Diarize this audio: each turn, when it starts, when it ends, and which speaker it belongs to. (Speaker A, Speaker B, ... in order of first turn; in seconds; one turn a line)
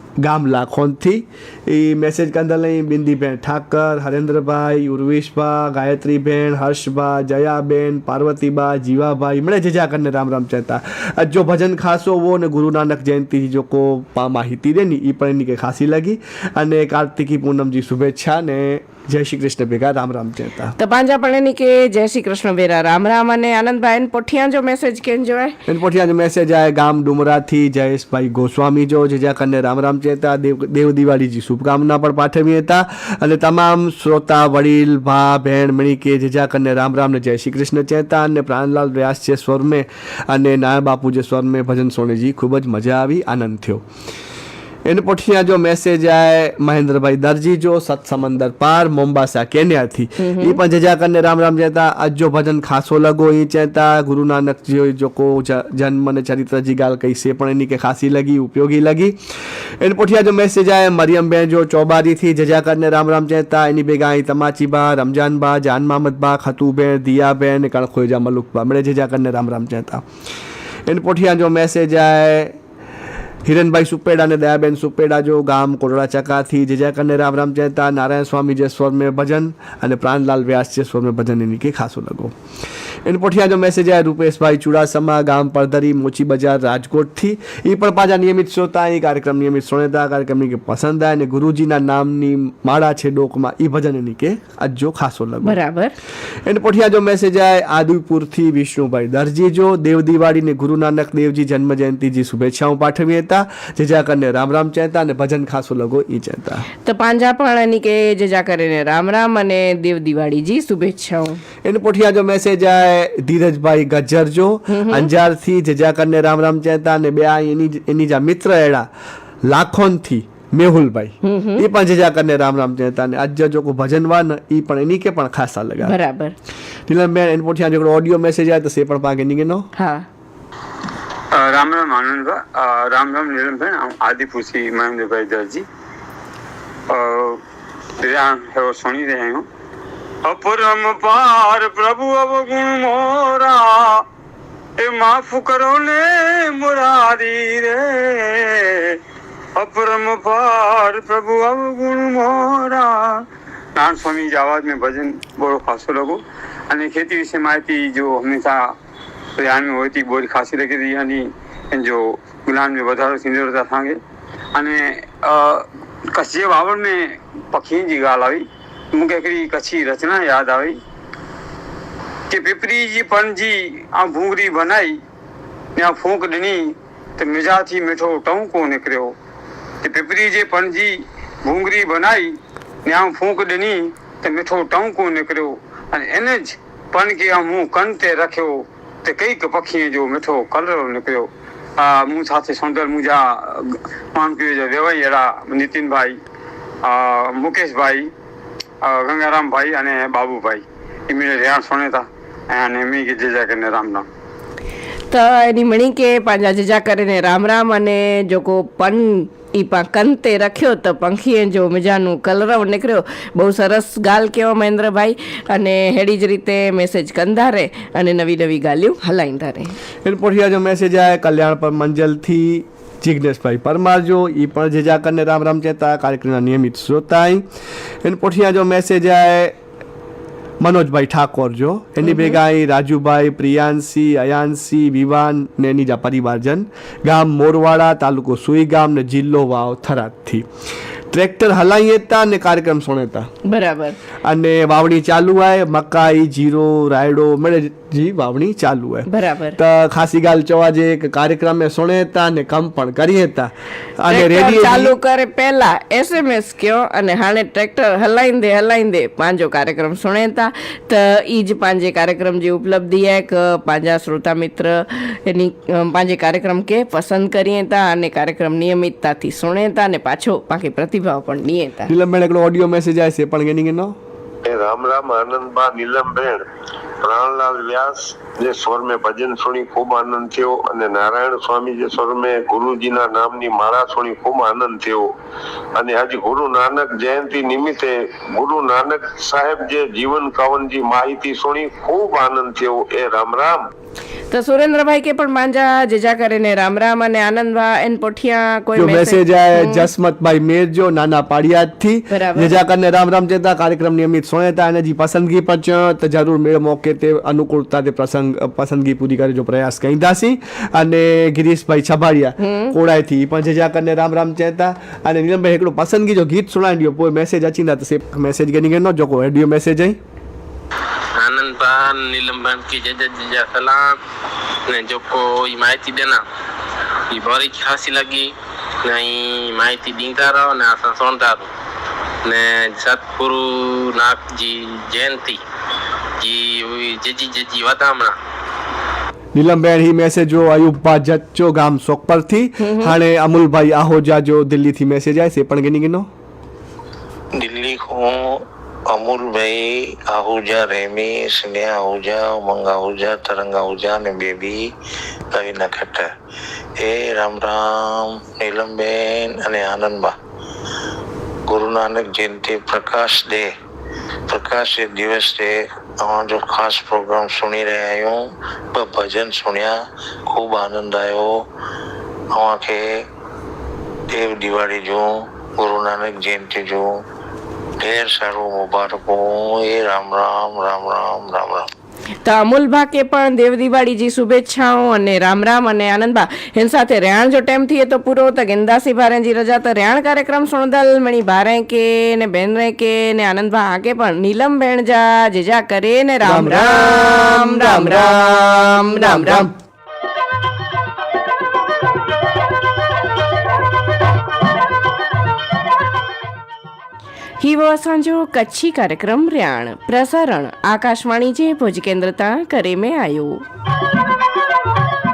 Speaker A: 0.2-20.8
Speaker B: 20.8-25.6
Speaker A: 25.7-43.8
Speaker A: 44.9-59.2
Speaker B: 50.2-50.6
Speaker A: 59.8-70.0
Speaker A: 70.9-72.6
Speaker A: 73.5-82.3
Speaker A: 83.0-95.6
Speaker B: 95.4-96.0
Speaker A: 96.5-106.7
Speaker B: 106.8-111.4
Speaker A: 111.6-118.9
Speaker B: 114.7-115.1
Speaker A: 119.5-125.9
Speaker B: 121.2-121.6
Speaker B: 125.8-126.3
Speaker A: 126.9-129.7
Speaker B: 129.8-130.1
Speaker C: 131.3-135.7
Speaker C: 136.9-137.4
Speaker C: 138.0-139.4
Speaker C: 140.2-144.0
Speaker C: 144.8-149.0
Speaker C: 149.6-158.7
Speaker C: 159.4-164.0
Speaker C: 164.6-170.8
Speaker C: 172.3-175.0
Speaker C: 175.8-179.2
Speaker C: 179.8-196.2
Speaker C: 196.8-198.1
Speaker C: 198.8-204.1
Speaker B: 205.1-219.7
Speaker A: 220.1-227.4
Speaker A: 228.0-229.5
Speaker A: 230.6-240.5
Speaker B: 232.0-232.4
Speaker A: 241.1-243.3
Speaker B: 243.5-244.0
Speaker A: 244.2-254.9
Speaker B: 249.1-249.6
Speaker B: 254.1-271.9
Speaker A: 271.9-274.0
Speaker D: 274.5-276.4
Speaker D: 277.0-285.1
Speaker D: 285.8-293.7
Speaker B: 294.3-299.9
Speaker A: 298.8-320.0
Speaker B: 302.1-302.6
Speaker B: 312.4-312.7
Speaker E: 321.2-324.0
Speaker E: 324.7-326.2
Speaker E: 327.1-328.3
Speaker E: 328.8-331.5
Speaker E: 332.2-335.4
Speaker E: 336.2-338.1
Speaker A: 339.4-346.1
Speaker B: 342.6-342.9
Speaker F: 347.4-354.7
Speaker F: 355.3-356.1
Speaker F: 356.8-360.1
Speaker F: 361.5-363.5
Speaker F: 364.3-371.4
Speaker F: 372.3-373.0
Speaker F: 374.1-376.9
Speaker F: 377.8-381.7
Speaker B: 382.2-399.5
Speaker A: 396.2-399.5
Speaker B: 407.4-413.4